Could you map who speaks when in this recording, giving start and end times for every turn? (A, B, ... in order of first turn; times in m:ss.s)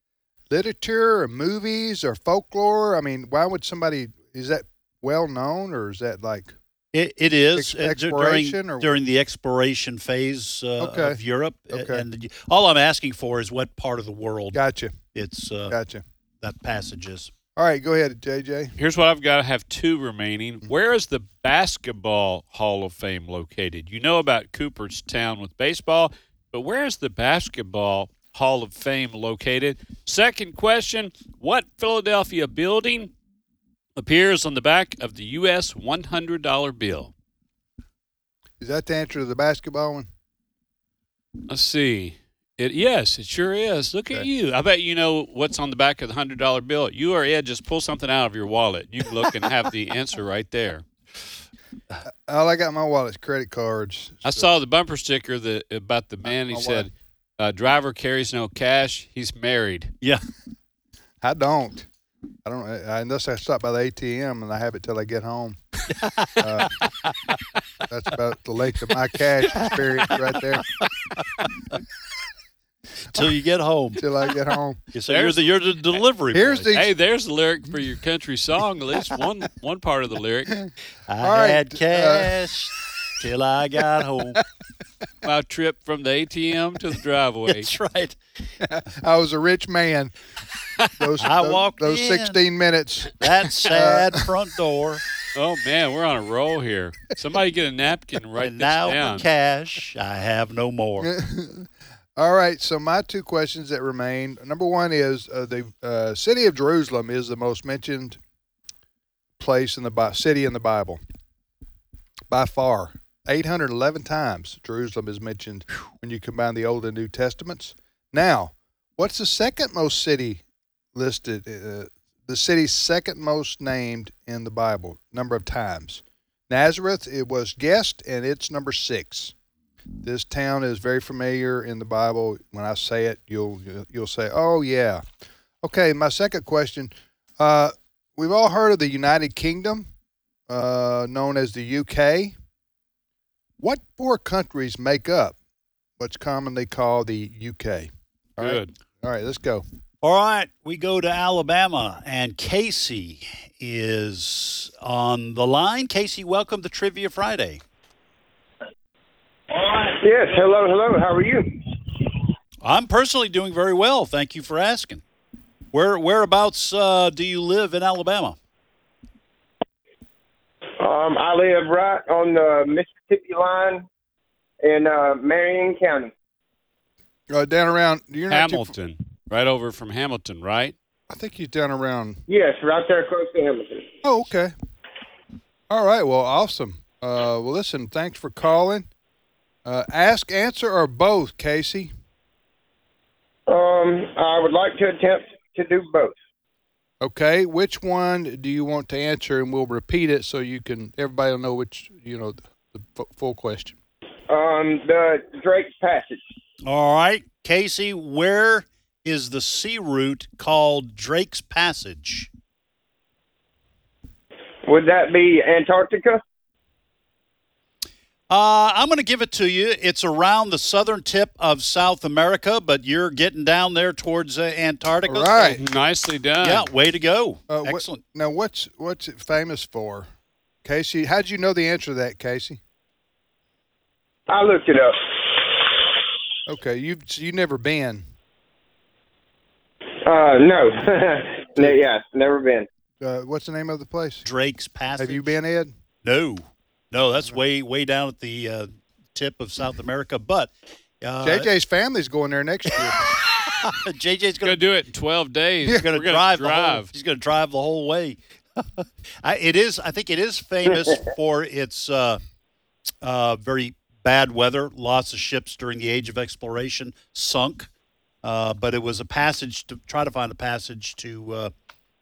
0:00.5-0:06.5 A
0:06.9-0:14.6 B
0:07.5-0:08.9 A
0:10.8-0:11.2 A
0:11.7-0:12.0 A
0:14.5-0:15.0 A
0:15.1-0:15.8 B
0:15.7-0:16.0 A
0:16.4-0:17.3 B
0:17.6-0:18.7 A
0:18.8-0:33.1 C
0:34.0-0:37.1 C
0:38.6-0:40.1 A
0:41.5-0:50.8 C
0:52.3-0:54.5 A
0:54.2-0:59.9 C
0:56.2-0:56.9 A
1:01.2-1:01.9 A
1:02.4-1:05.6 A
1:06.0-1:07.1 B
1:06.4-1:06.7 A
1:07.9-1:10.6 A
1:09.4-1:11.8 B
1:13.1-1:14.0 B
1:14.0-1:14.8 A
1:14.9-1:16.7 B
1:15.1-1:16.0 C
1:16.3-1:16.9 A
1:16.7-1:20.6 C
1:21.1-1:24.4 B
1:21.2-1:22.4 A
1:25.2-1:27.7 C
1:27.5-1:28.2 B
1:28.6-1:30.1 A
1:30.9-1:34.3 A
1:31.2-1:32.4 B
1:33.2-1:35.0 B
1:35.3-1:39.2 C
1:38.4-1:41.1 B
1:41.0-1:48.2 A
1:49.4-1:51.0 A
1:52.3-2:00.4 A
2:00.9-2:09.3 A
2:10.0-2:15.0 A
2:15.6-2:19.9 A
2:20.5-2:22.3 A
2:23.6-2:25.3 A
2:26.0-2:29.6 A
2:28.4-2:28.7 C
2:30.0-2:37.6 B
2:39.5-2:41.6 D
2:42.6-2:45.0 B
2:45.7-2:48.4 B
2:50.8-2:53.8 D
2:54.6-2:56.1 D
2:57.3-2:58.7 A
2:58.3-3:00.7 C
3:01.1-3:02.2 A
3:02.3-3:03.8 D
3:04.0-3:04.5 A
3:05.7-3:08.9 A
3:09.6-3:11.9 A
3:13.5-3:16.2 D
3:17.0-3:23.8 A
3:24.3-3:26.2 D
3:26.6-3:32.3 B
3:34.6-3:36.2 D
3:38.3-3:45.6 B
3:45.0-3:45.6 A
3:45.6-3:46.7 C
3:46.4-3:48.0 B
3:47.5-3:50.1 A
3:50.6-3:52.6 A
3:54.3-3:55.0 D
3:56.4-3:58.1 A
4:00.0-4:02.7 D
4:03.0-4:04.2 A
4:04.2-4:05.3 B
4:05.0-4:05.7 A
4:06.0-4:10.5 B
4:11.0-4:11.5 B
4:11.2-4:13.0 A
4:13.6-4:14.6 B
4:14.4-4:16.9 C
4:15.7-4:22.2 B
4:23.0-4:27.7 B
4:28.2-4:31.5 B